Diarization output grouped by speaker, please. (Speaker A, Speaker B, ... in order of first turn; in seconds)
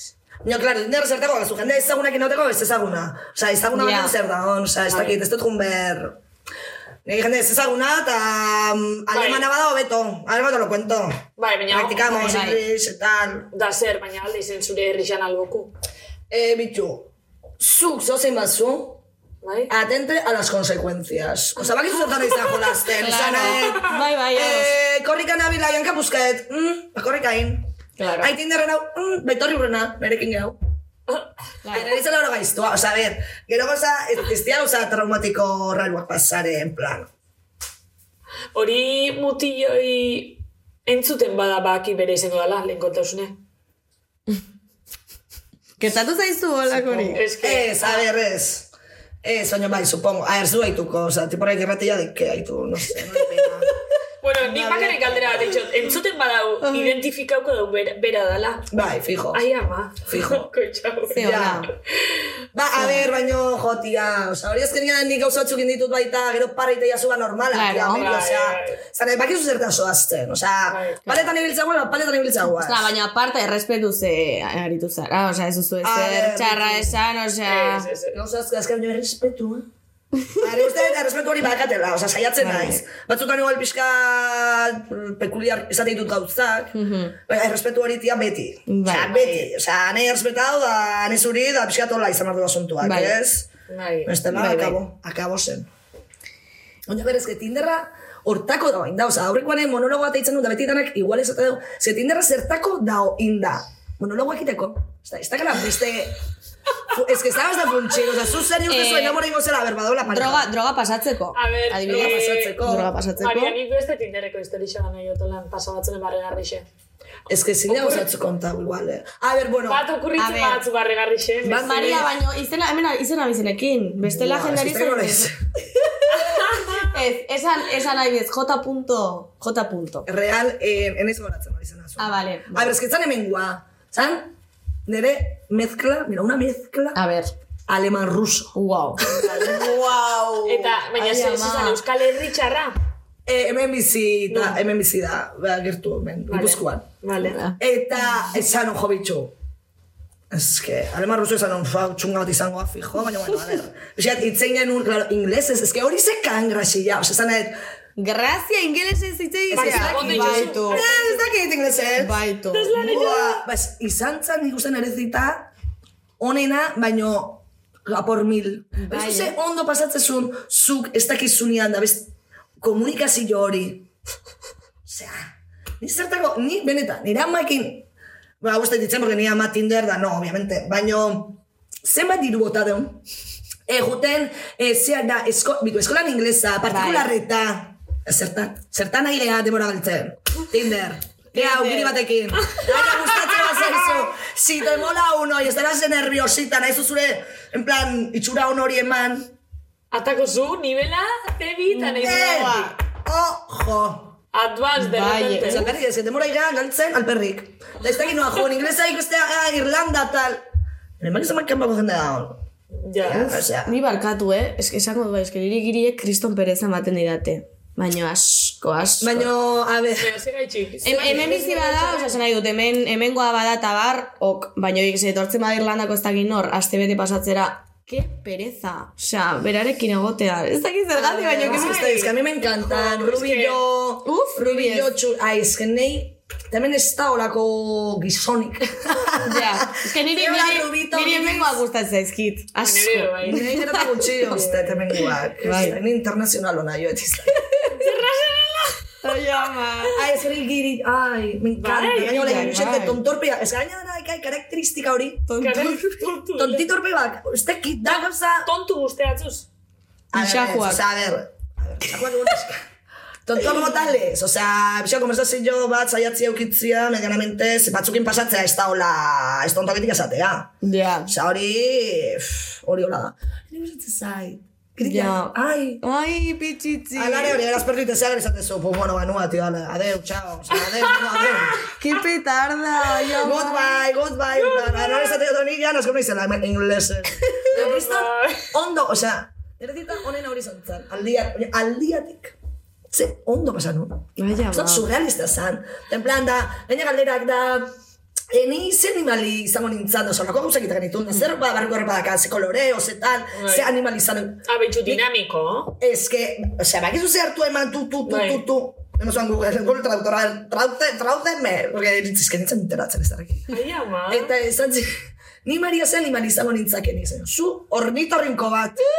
Speaker A: 0.4-6.2, 7.0-13.5, 16.3-19.0, 19.7-30.6, 31.7-37.1, 46.9-48.7, 49.2-53.7, 54.4-55.6, 58.7-59.4, 60.1-60.5, 61.1-61.7, 62.5-72.9, 75.8-77.0, 78.1-79.7, 80.3-93.5, 94.0-95.7, 96.9-106.2, 106.9-110.5, 111.8-112.9, 117.3-119.8, 121.5-122.0, 124.0-125.4, 130.1-134.3, 134.8-137.0, 137.7-138.5, 139.1-139.6, 143.2-146.9, 147.5-149.3, 150.3-157.6, 159.5-162.2, 162.7-165.5, 166.2-172.1, 172.6-173.9, 174.8-177.8, 178.4-183.0, 183.7-199.3, 202.0-204.1, 205.4-210.4, 211.0-212.4, 213.0-213.7, 219.0-220.1, 220.9-221.3, 231.0-241.6, 243.2-247.4, 249.9-255.3, 256.3-258.5, 260.1-262.6, 263.2-270.5, 271.1-275.8, 276.9-281.6, 283.2-292.3, 292.9-297.7, 298.3-305.0, 305.8-313.6, 314.1-314.9, 315.4-318.9
Speaker B: 3.7-4.1, 12.2-12.6, 23.0-24.7, 28.0-28.3, 31.6-31.9, 45.8-47.2, 56.7-57.0, 61.1-61.7, 67.5-68.1, 71.0-71.3, 72.5-77.8, 82.4-82.8, 86.7-87.1, 88.7-89.1, 92.8-93.2, 94.3-94.8, 108.7-109.2, 110.1-113.5, 120.2-120.6, 121.5-130.1, 132.0-132.7, 136.9-137.3, 138.5-141.8, 147.2-147.6, 158.0-160.8, 162.0-162.7, 168.8-169.4, 186.7-187.1, 191.3-191.9, 201.7-202.7, 204.8-205.7, 213.5-219.3, 220.8-231.8, 234.0-234.9, 239.2-243.7, 245.4-245.8, 249.0-249.9, 252.0-253.0, 255.3-255.8, 260.1-260.8, 270.6-271.1, 274.8-277.4, 281.8-283.7, 294.2-294.9
Speaker C: 4.9-5.2, 9.1-9.4, 11.4-12.5, 13.5-15.7, 19.4-19.7, 22.1-22.6, 38.5-43.3, 47.1-48.1, 54.2-58.7, 59.3-61.5, 67.9-68.8, 70.7-71.0, 77.4-78.2, 89.1-89.5, 93.7-94.2, 111.3-112.6, 113.2-116.7, 117.7-118.1, 119.7-122.0, 126.1-126.9, 140.4-142.8, 144.3-144.6, 146.3-147.4, 159.5-161.3, 162.5-163.4, 192.4-194.1, 199.9-202.7, 204.3-205.7, 212.8-213.3, 220.0-222.2, 231.2-233.6, 242.6-245.8, 247.7-249.1, 251.6-252.6, 255.4-256.7, 257.8-259.5, 280.6-281.7, 284.3-285.2, 287.5-288.5, 303.3-303.7, 304.5-305.7, 308.1-308.4, 313.5-314.3